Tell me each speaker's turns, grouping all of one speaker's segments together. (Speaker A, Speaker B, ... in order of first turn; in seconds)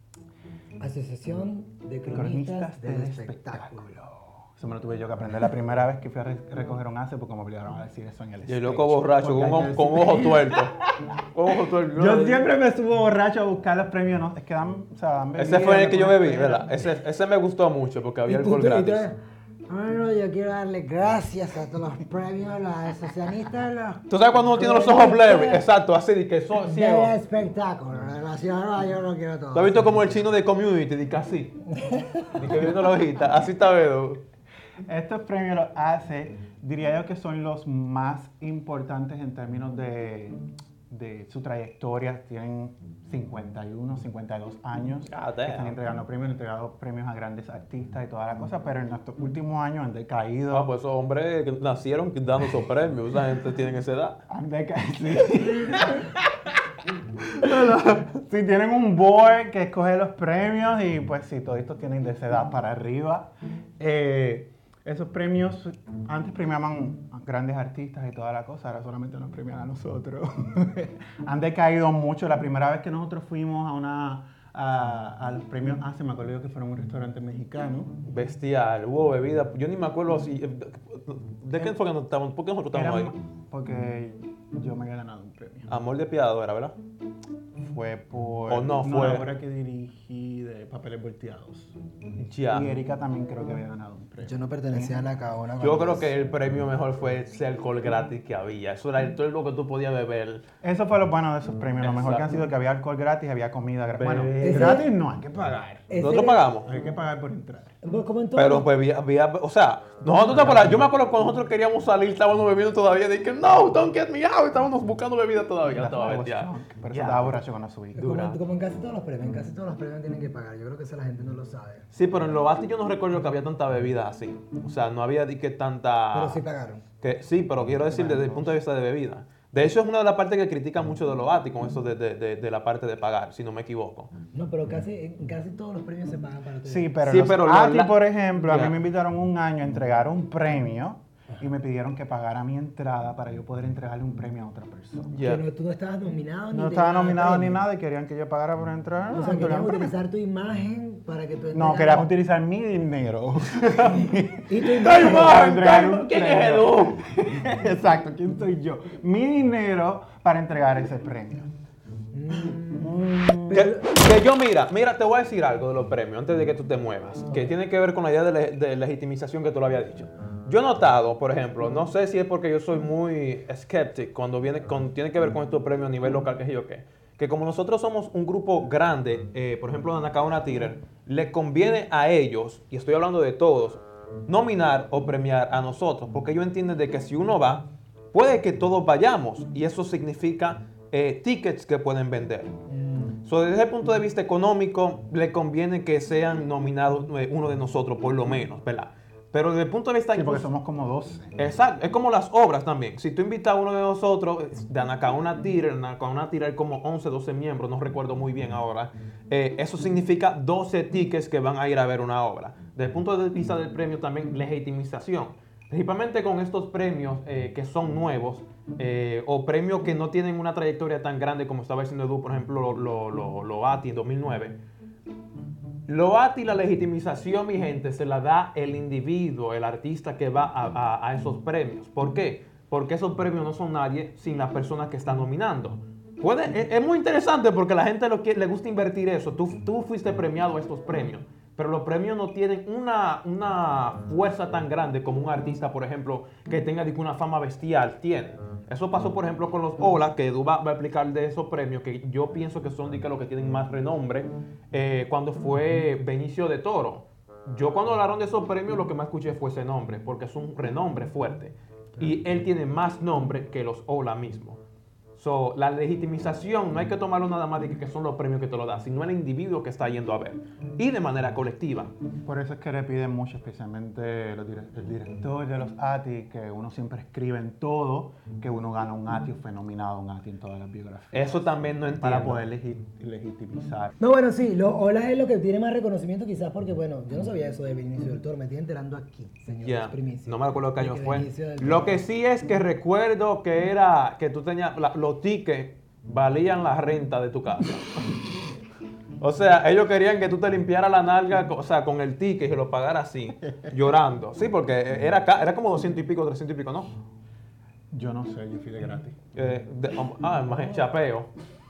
Speaker A: 0.8-3.9, 18.3-19.1, 19.7-24.0, 24.5-25.6, 26.6-30.1, 31.7-32.4, 94.2-96.1, 104.4-104.9, 105.9-106.5, 107.8-108.7, 118.0-121.8, 126.1-126.8, 134.3-136.9, 145.2-147.6, 149.1-152.1, 154.5-155.4, 162.1-163.9, 284.0-292.0
Speaker B: 2.1-11.1, 11.9-16.8, 34.9-50.7, 54.3-56.6, 57.4-78.0, 82.7-85.7, 87.6-91.7, 92.5-95.1, 100.6-105.9, 106.6-107.8, 110.1-110.9, 115.7-118.2, 127.8-128.6, 136.6-145.1, 146.5-149.9, 151.5-161.5, 162.5-163.7, 200.1-201.4, 272.2-283.9, 307.9-309.2
Speaker C: 8.5-10.8, 11.3-12.4, 15.4-19.1, 24.1-27.1, 29.5-31.6, 32.3-34.2, 45.1-45.8, 50.5-54.2, 57.4-58.1, 78.0-83.1, 85.7-86.7, 88.5-89.3, 92.2-92.7, 95.6-100.4, 101.8-102.3, 104.0-104.7, 106.0-106.7, 108.3-117.4, 118.0-118.4, 121.9-126.4, 127.0-134.1, 137.0-138.8, 145.1-145.4, 154.8-157.0, 163.5-192.5, 193.2-200.4, 201.4-224.6, 225.9-264.6, 265.1-271.9, 281.1-282.4, 289.6-297.9, 299.2-306.9, 309.3-311.3